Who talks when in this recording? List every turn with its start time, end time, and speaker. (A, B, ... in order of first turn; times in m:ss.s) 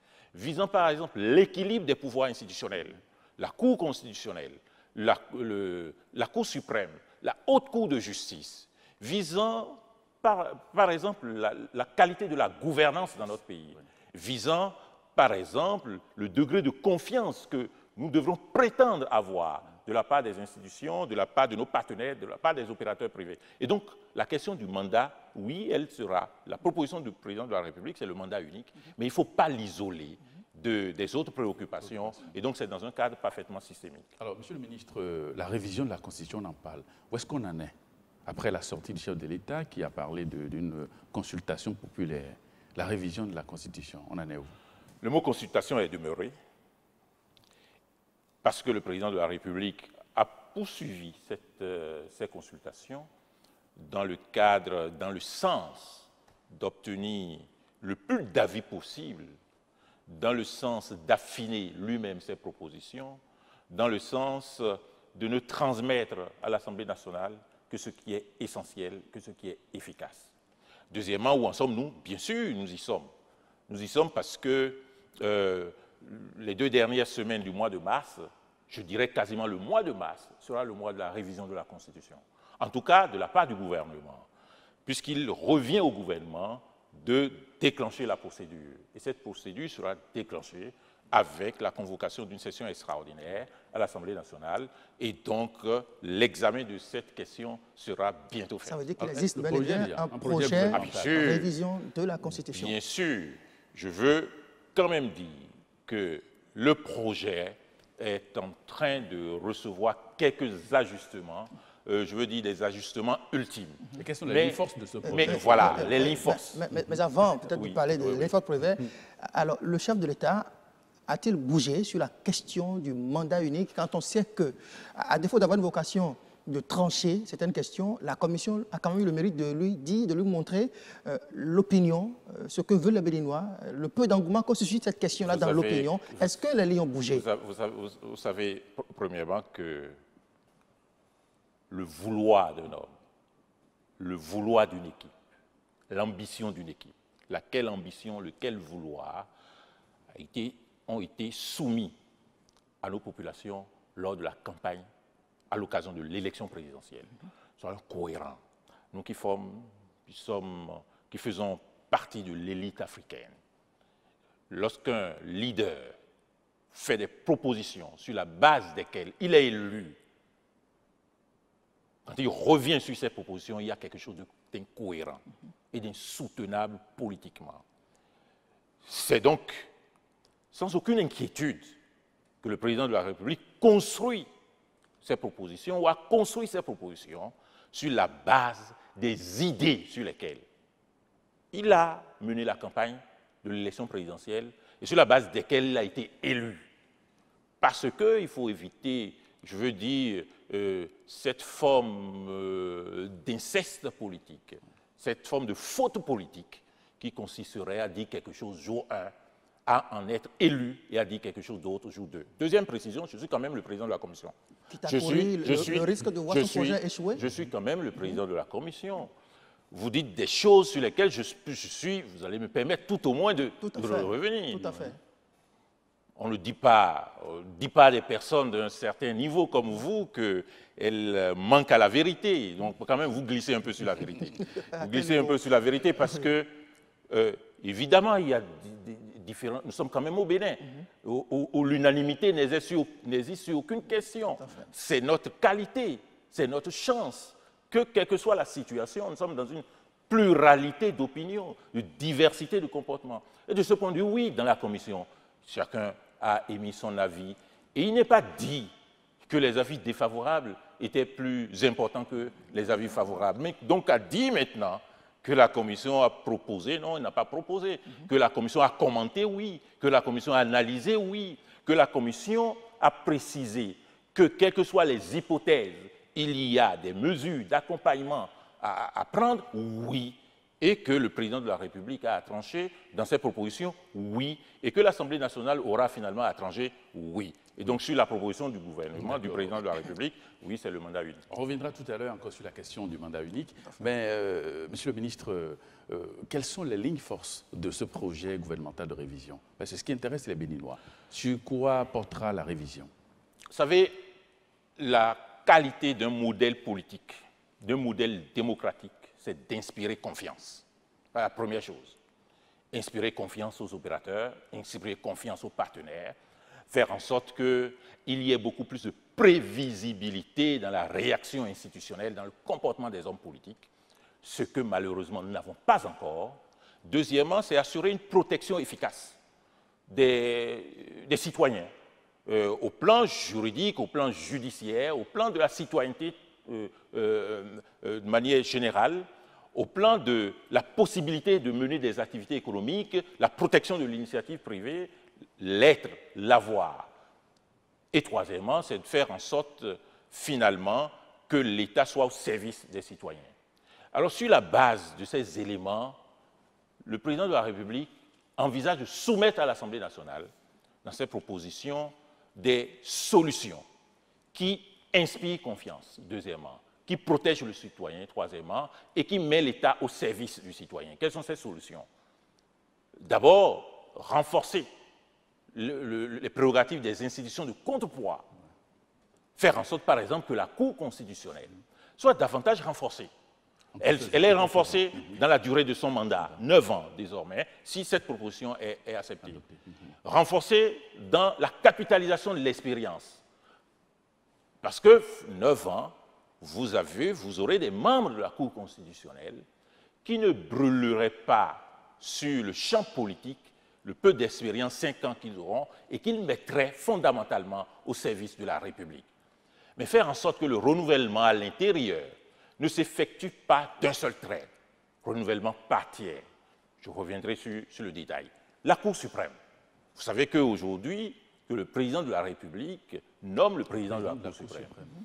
0:00.3-0:34.1 A
0:31.9-0:32.2 B
0:34.2-0:37.7 B
0:38.2-0:44.6 B
0:45.0-0:46.3 A
0:48.4-0:53.1 A
0:53.8-0:59.3 A
1:00.1-1:10.3 A
1:10.9-1:13.1 A
1:13.7-1:24.3 A
1:24.8-1:38.8 A
1:38.6-1:42.7 C
1:39.0-1:41.4 B
1:40.7-1:41.5 A
1:42.5-1:56.6 A
1:54.0-1:56.8 B
1:55.0-2:00.5 C
1:57.5-1:58.3 A
2:01.1-2:17.2 C
2:15.2-2:16.4 A
2:17.1-2:20.0 A
2:21.7-2:22.9 A
2:24.0-2:25.1 A
2:25.9-2:29.3 A
2:30.1-2:31.9 A
2:32.8-2:34.8 A
2:35.5-2:38.4 A
2:38.9-2:43.3 A
2:44.5-2:46.0 A
2:46.7-2:50.0 A
2:52.0-2:57.6 A
2:58.8-2:59.7 A
3:00.5-3:01.7 A
3:02.4-3:04.3 A
3:05.0-3:10.4 A
3:11.5-3:16.6 A
3:17.6-3:29.1 A
3:29.6-3:34.3 A
3:34.7-3:37.2 C
3:34.8-3:39.1 A
3:39.7-3:44.8 A
3:43.6-3:45.0 C
3:46.2-3:56.5 A
3:54.8-3:55.3 C
3:57.1-4:18.7 A
4:04.4-4:04.6 C
4:19.2-4:51.2 A
4:49.0-4:49.6 B
4:51.3-5:02.9 B
5:03.5-5:04.0 A
5:04.8-5:12.0 A
5:12.7-5:16.2 A
5:16.7-5:23.7 A
5:24.2-5:29.2 A
5:29.9-5:31.7 A
5:32.2-5:46.9 A
5:47.9-5:53.3 A
5:53.9-5:56.0 A
5:56.8-6:00.3 A
6:00.8-6:03.6 A
6:04.3-6:11.9 A
6:13.0-6:14.7 A
6:15.5-6:18.3 A
6:19.4-6:23.1 A
6:23.8-6:25.2 B
6:23.8-6:29.4 A
6:29.2-6:29.9 B
6:30.0-6:33.2 A
6:34.6-6:39.4 A
6:40.0-6:49.1 A
6:49.8-6:54.5 A
6:55.0-6:56.2 A
6:56.8-6:59.3 A
6:59.9-7:04.7 A
7:03.8-7:04.9 B